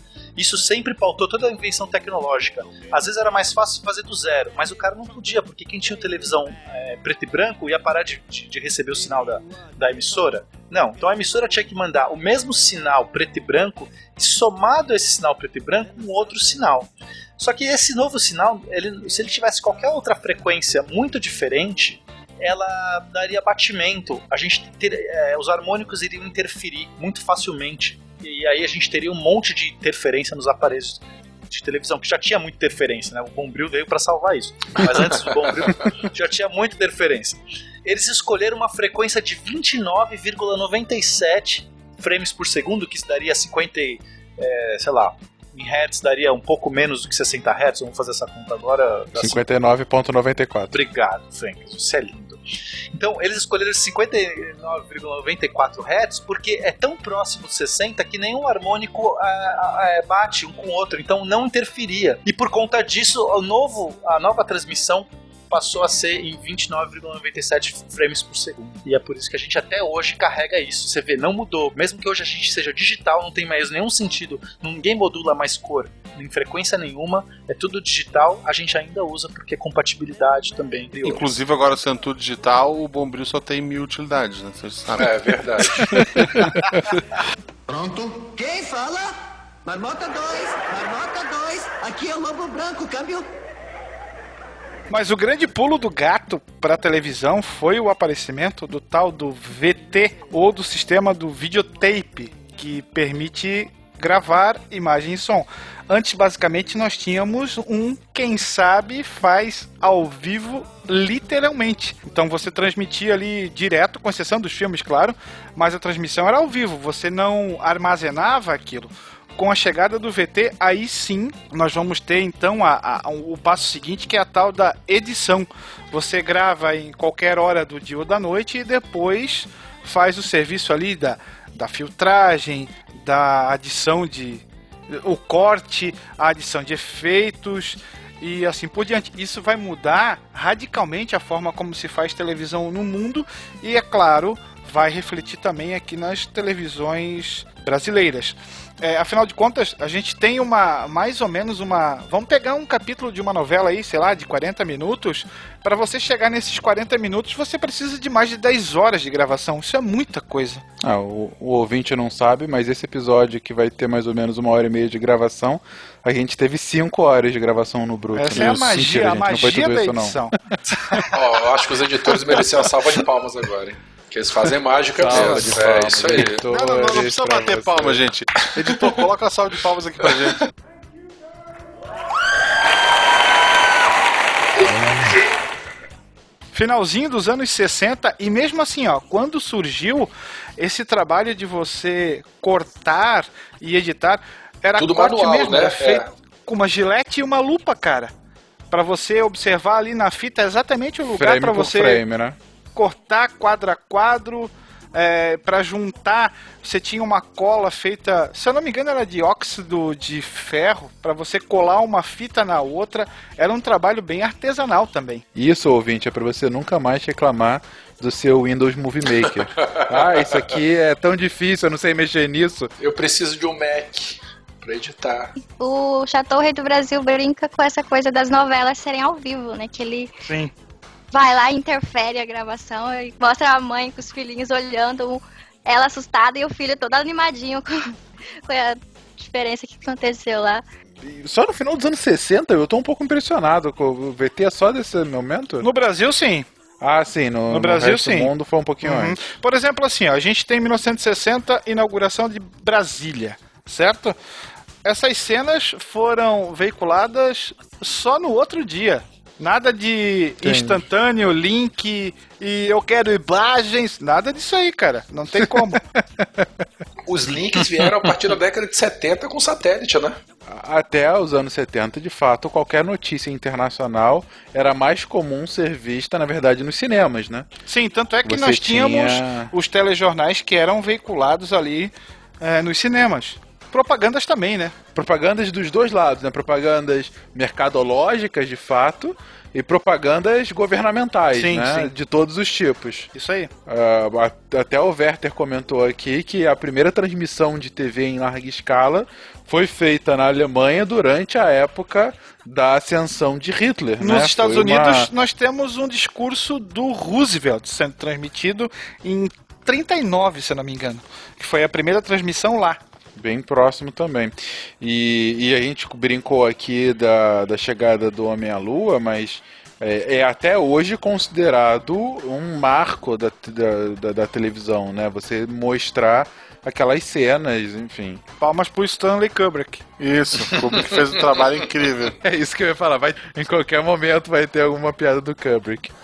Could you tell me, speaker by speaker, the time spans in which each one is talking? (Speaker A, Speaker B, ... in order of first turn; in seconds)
Speaker A: 0.4-49.4, 50.7-52.4, 52.9-81.3
Speaker B: 49.1-50.8, 85.9-87.0, 160.8-170.6, 174.9-178.0, 201.1-202.4, 215.3-222.7, 241.0-245.6, 246.8-249.2, 260.4-260.8, 270.5-277.4, 278.2-279.5, 284.9-293.1, 293.7-305.1, 313.1-328.2, 332.2-335.9
Speaker C: 81.0-85.6, 176.3-180.4, 330.0-332.1
Speaker D: 85.0-86.3, 171.1-176.5, 194.8-196.1, 222.8-225.3, 267.1-270.2
Speaker E: 87.7-89.1, 89.7-93.3
Speaker F: 94.9-160.6, 168.1-170.3, 186.5-198.1, 198.7-202.0, 202.7-215.2, 230.3-230.5, 245.6-246.5, 247.5-254.2, 254.8-265.8, 277.7-284.7, 291.3-291.9, 293.1-293.5, 304.0-312.8, 328.4-329.8
Speaker G: 225.4-230.1, 231.1-240.6